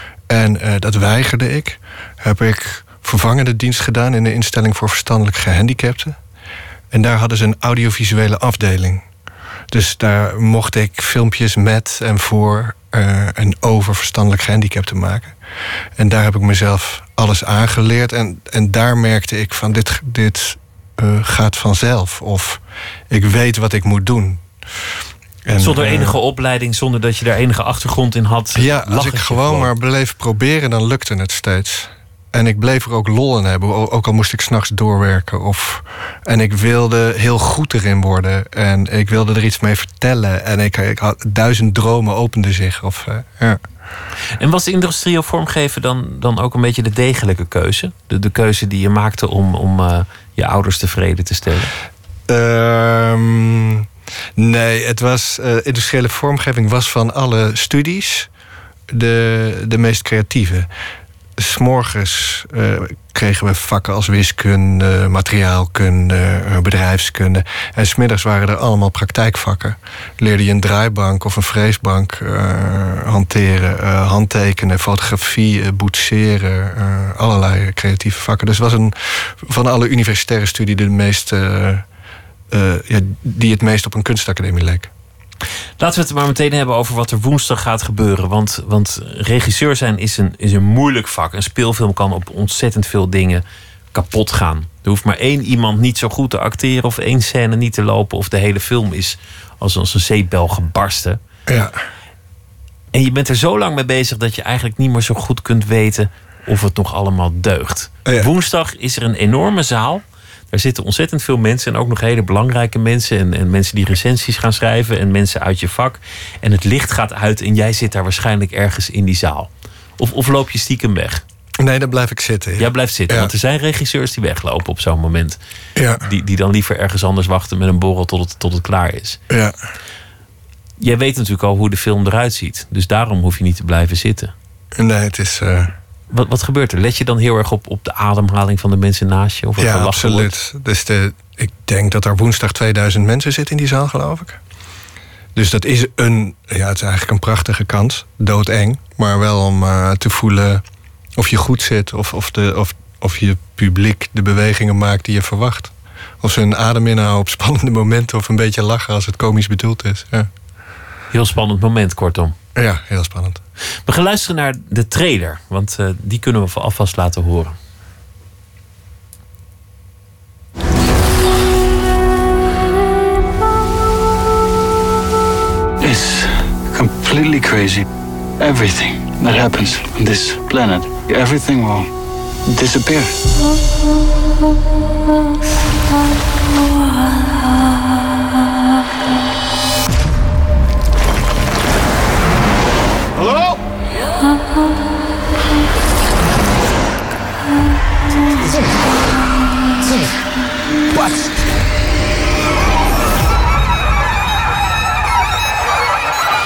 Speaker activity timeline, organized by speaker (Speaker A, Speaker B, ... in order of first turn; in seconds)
Speaker A: 0.3-6.2, 6.9-9.1, 9.7-15.4, 16.0-24.4, 25.5-26.1, 28.5-43.6, 52.3-58.3, 58.9-60.7, 61.4-81.8, 82.5-84.9, 101.5-101.8, 121.6-123.3, 125.8-126.0, 129.3-129.6, 134.8-135.7, 139.6-144.4, 145.3-150.6, 151.2-160.3, 162.6-163.4
Speaker B: 25.6-29.7, 44.4-51.7, 85.8-93.4, 93.9-101.2, 102.9-121.2, 122.6-125.4, 126.0-129.2, 130.8-134.3, 136.1-140.3, 161.1-162.3, 163.9-167.6
Speaker C: 175.8-177.9, 178.4-181.9, 182.5-183.2